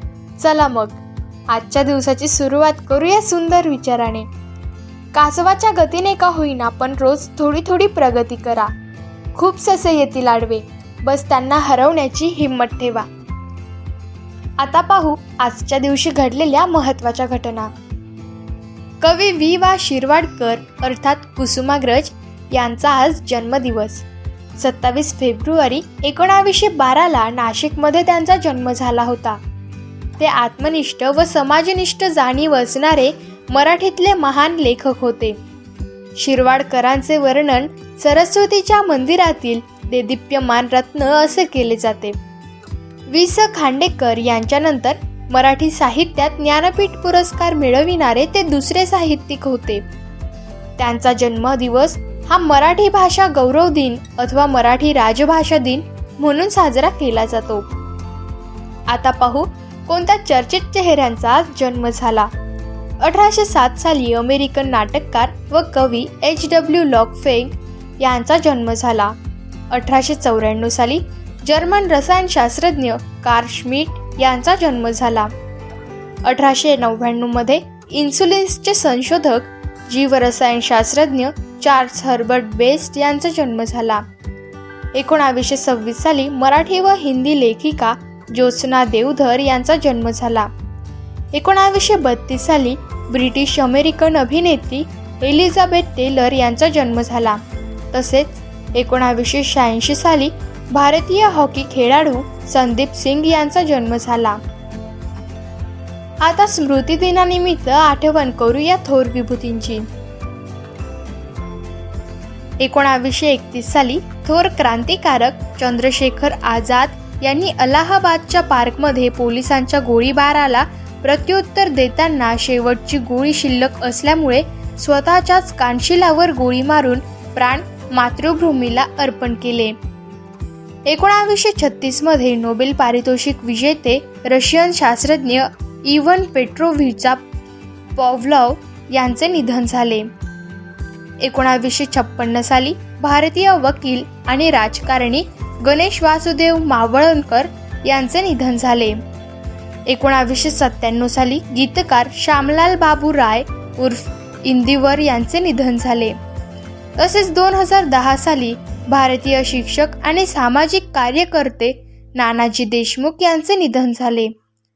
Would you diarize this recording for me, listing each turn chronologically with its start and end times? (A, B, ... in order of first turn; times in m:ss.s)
0:00.4-0:04.3 A
0:05.1-0:08.7 A
0:09.4-0:13.1 A
0:14.6-0:17.7 A
0:19.0-0:29.4 A
0:30.2-0:35.4 A
0:36.2-0:42.2 A
0:43.1-0:49.9 A
0:50.8-0:57.7 A
0:58.9-1:02.3 A
1:03.0-1:09.2 A
1:09.7-1:15.3 A
1:16.2-1:24.0 A
1:25.0-1:30.5 A
1:31.3-1:37.4 A
1:37.9-1:44.4 A
1:46.2-1:49.8 A
1:52.6-2:09.8 A
2:10.9-2:17.2 A
2:18.0-2:20.1 A
2:21.2-2:29.0 A
2:29.9-2:36.2 A
2:37.0-2:44.3 A